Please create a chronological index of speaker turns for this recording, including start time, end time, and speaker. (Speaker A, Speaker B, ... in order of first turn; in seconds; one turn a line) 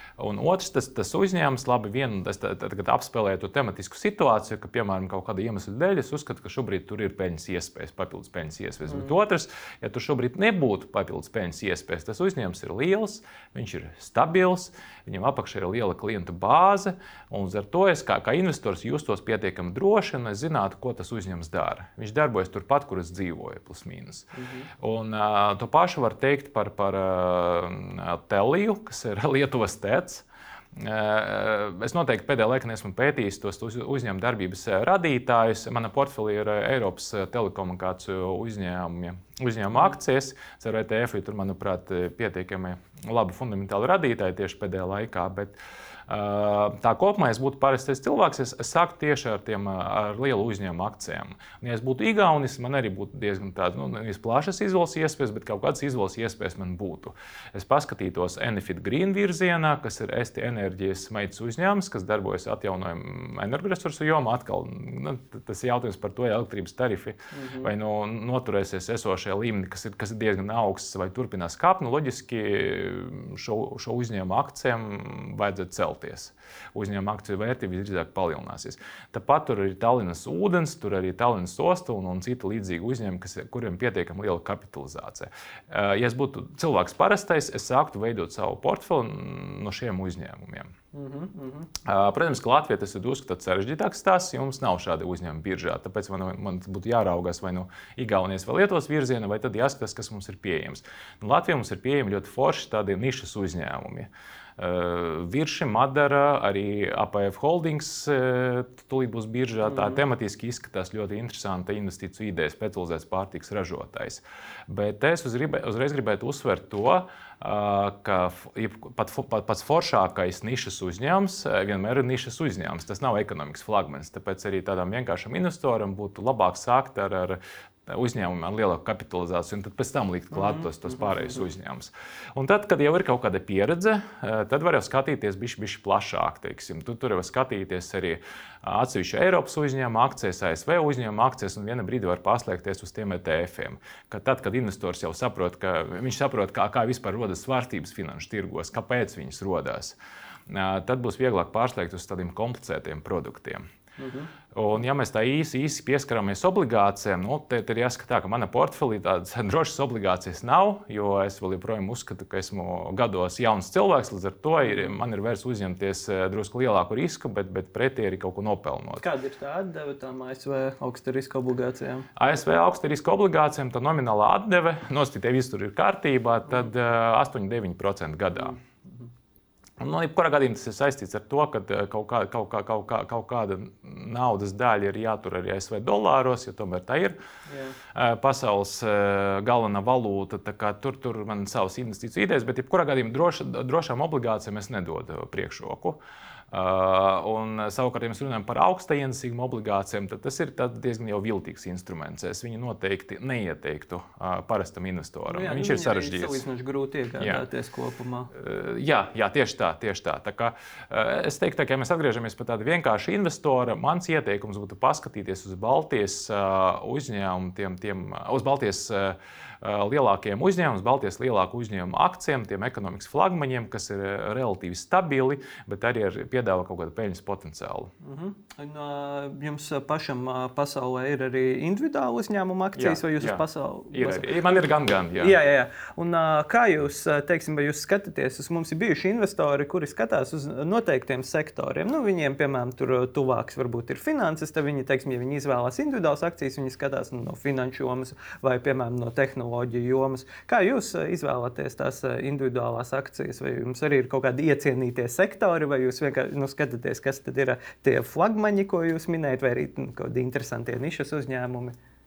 Speaker A: 0.2-45.5
Speaker B: 24.3-24.7
Speaker A: 46.1-90.7
Speaker B: 67.3-67.7
Speaker B: 90.9-91.7
Speaker A: 91.8-150.0
Speaker B: 109.7-110.0
Speaker B: 130.3-131.1
Speaker A: 150.5-153.6
Speaker B: 154.0-154.3
Speaker A: 154.5-169.0
Speaker B: 169.0-172.1
Speaker A: 172.2-178.6
Speaker B: 178.4-179.0
Speaker A: 179.8-187.2
Speaker B: 187.5-187.8
Speaker A: 187.9-196.0
Speaker A: 196.5-206.4
Speaker B: 205.3-208.3
Speaker A: 207.2-207.4
Speaker A: 208.3-227.9
Speaker B: 228.0-234.3
Speaker A: 232.8-235.3
Speaker B: 235.2-261.7